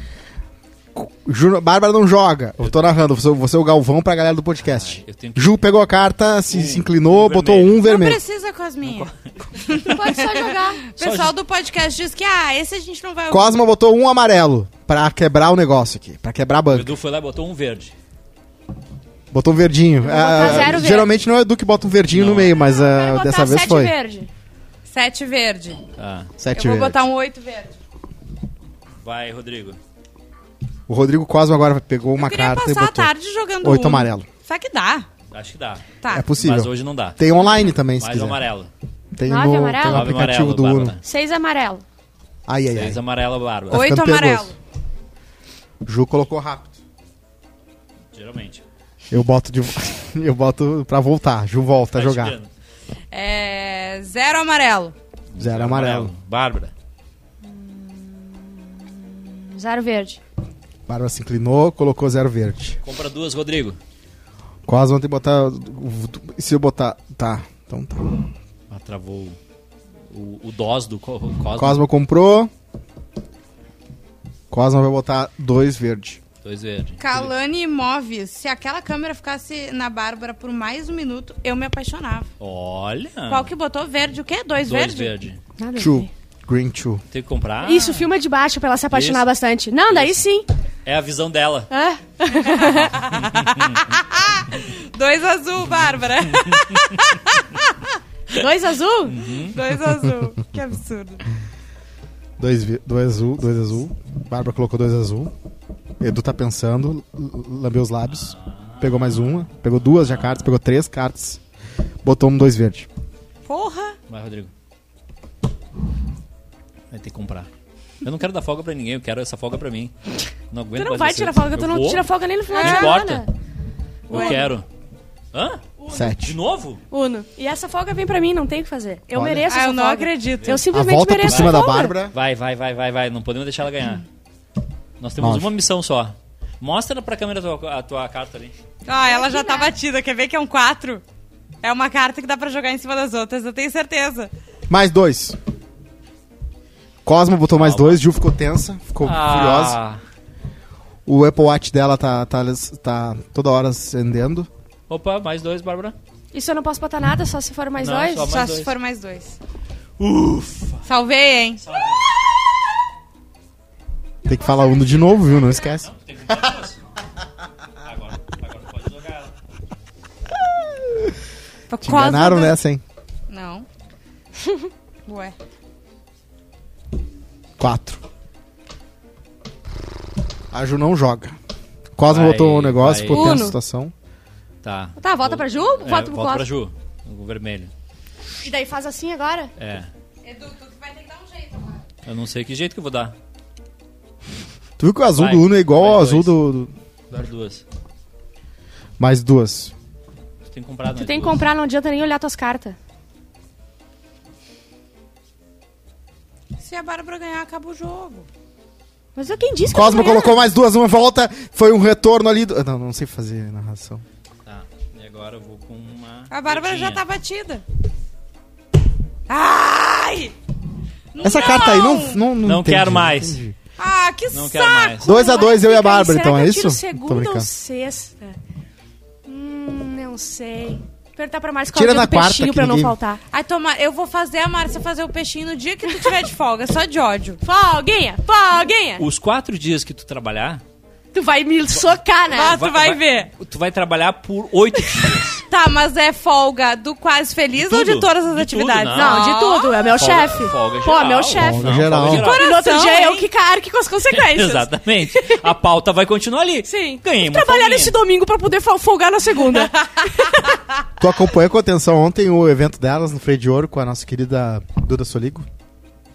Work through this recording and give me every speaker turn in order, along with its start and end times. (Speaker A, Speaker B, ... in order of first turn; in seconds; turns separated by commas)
Speaker A: 0.9-8.2, Speaker B: 4.6-5.6, Speaker B: 6.5-7.8, Speaker C: 7.8-13.6, Speaker B: 8.8-9.1, Speaker D: 9.7-10.8, Speaker B: 11.0-11.3, Speaker A: 13.3-16.9, Speaker B: 16.7-17.9, Speaker A: 19.3-23.9, Speaker D: 20.0-21.1, Speaker B: 22.1-22.5, Speaker D: 22.7-24.3, Speaker C: 24.9-25.8, Speaker B: 26.0-26.3, Speaker A: 26.4-27.0, Speaker C: 26.6-27.8, Speaker B: 29.0-29.8, Speaker A: 30.9-33.1, Speaker C: 32.2-35.1, Speaker A: 33.6-34.3, Speaker B: 35.3-37.2, Speaker C: 36.0-36.3, Speaker A: 36.1-38.4, Speaker B: 38.0-38.7, Speaker A: 39.1-41.0, Speaker D: 39.2-40.1, Speaker B: 39.9-41.0, Speaker D: 41.0-41.8, Speaker A: 42.5-43.0, Speaker B: 42.7-43.9, Speaker A: 43.7-44.5, Speaker C: 43.7-44.5, Speaker A: 45.9-46.8, Speaker B: 48.1-48.6, Speaker A: 49.1-52.4, Speaker B: 51.9-52.5, Speaker C: 53.1-55.0, Speaker B: 55.3-56.7, Speaker A: 55.4-56.1, Speaker D: 57.4-60.2, Speaker A: 60.9-62.8, Speaker B: 62.8-63.8, Speaker A: 64.7-68.3, Speaker B: 68.7-69.4, Speaker B: 70.1-71.8, Speaker A: 71.6-72.5, Speaker A: 74.5-76.2, Speaker B: 76.4-77.3, Speaker C: 77.0-82.3, Speaker B: 82.4-83.5, Speaker C: 83.3-85.1, Speaker B: 84.7-85.4, Speaker D: 85.6-86.1, Speaker A: 85.8-87.0, Speaker B: 87.1-88.1, Speaker D: 87.6-90.5, Speaker B: 88.9-89.3, Speaker B: 89.9-90.2, Speaker B: 90.8-91.7, Speaker D: 91.7-92.9, Speaker C: 92.3-98.0, Speaker B: 92.8-93.8, Speaker D: 98.3-99.2, Speaker B: 99.0-99.6, Speaker C: 99.4-101.2, Speaker A: 102.4-105.3, Speaker A: 106.0-111.4, Speaker B: 108.1-109.5, Speaker B: 110.0-110.5, Speaker A: 112.0-112.9, Speaker C: 113.5-114.0, Speaker B: 114.1-114.5, Speaker B: 116.9-117.5, Speaker B: 118.0-119.9, Speaker B: 120.5-123.3, Speaker D: 120.8-123.3, Speaker C: 122.5-123.0, Speaker D: 124.1-124.5, Speaker C: 124.1-124.5, Speaker B: 124.1-124.7, Speaker B: 125.3-125.6, Speaker D: 125.8-126.1, Speaker A: 125.9-126.4, Speaker B: 126.2-126.8, Speaker D: 126.9-131.9, Speaker A: 129.1-129.5, Speaker C: 129.5-130.6, Speaker B: 130.4-130.7, Speaker A: 130.7-132.2, Speaker B: 131.2-134.0, Speaker B: 135.0-138.5, Speaker A: 135.2-135.5, Speaker C: 138.8-141.0, Speaker D: 139.0-139.7, Speaker C: 141.6-144.3, Speaker A: 144.7-145.4, Speaker A: 147.0-149.8, Speaker B: 147.6-148.0, Speaker B: 149.0-150.0, Speaker A: 151.1-154.5, Speaker B: 154.9-156.0, Speaker D: 156.3-158.3, Speaker B: 157.8-158.7, Speaker C: 158.2-159.4, Speaker B: 160.0-160.9, Speaker C: 160.8-161.6, Speaker B: 161.6-162.1, Speaker A: 164.2-165.9, Speaker D: 164.3-165.1, Speaker B: 165.8-166.8, Speaker B: 167.8-169.3, Speaker C: 171.7-172.6, Speaker A: 171.8-172.8, Speaker C: 173.3-173.7, Speaker C: 175.1-175.3, Speaker A: 177.6-178.0, Speaker A: 180.5-181.3, Speaker A: 182.0-183.9, Speaker B: 182.1-183.5, Speaker D: 183.1-183.6, Speaker B: 184.6-187.7, Speaker D: 185.0-186.5, Speaker D: 188.4-189.5, Speaker B: 189.6-189.9, Speaker C: 190.2-191.9, Speaker B: 192.1-193.2, Speaker A: 194.8-196.7, Speaker B: 195.2-196.3, Speaker B: 197.1-197.6, Speaker A: 199.0-199.7, Speaker B: 200.4-201.4, Speaker D: 200.9-202.8, Speaker C: 206.6-208.3, Speaker D: 209.2-210.4, Speaker A: 209.7-214.0, Speaker B: 214.4-217.0, Speaker C: 216.3-217.6, Speaker C: 219.3-220.3, Speaker C: 221.1-222.2, Speaker A: 221.2-223.6, Speaker B: 222.4-223.4, Speaker C: 223.8-225.0, Speaker B: 224.3-225.1, Speaker A: 225.0-227.5, Speaker D: 225.0-228.4, Speaker D: 229.3-233.2, Speaker A: 231.7-233.0, Speaker C: 233.3-237.4, Speaker D: 235.9-236.1, Speaker D: 237.4-239.1, Speaker B: 239.0-240.6, Speaker D: 241.1-242.7, Speaker C: 242.3-243.3, Speaker B: 242.4-245.4, Speaker C: 245.5-249.9, Speaker B: 247.6-249.4, Speaker D: 248.9-255.4, Speaker B: 249.9-252.6, Speaker A: 251.4-252.3, Speaker C: 252.1-253.3, Speaker B: 254.1-258.0, Speaker D: 256.6-260.5, Speaker A: 261.0-265.5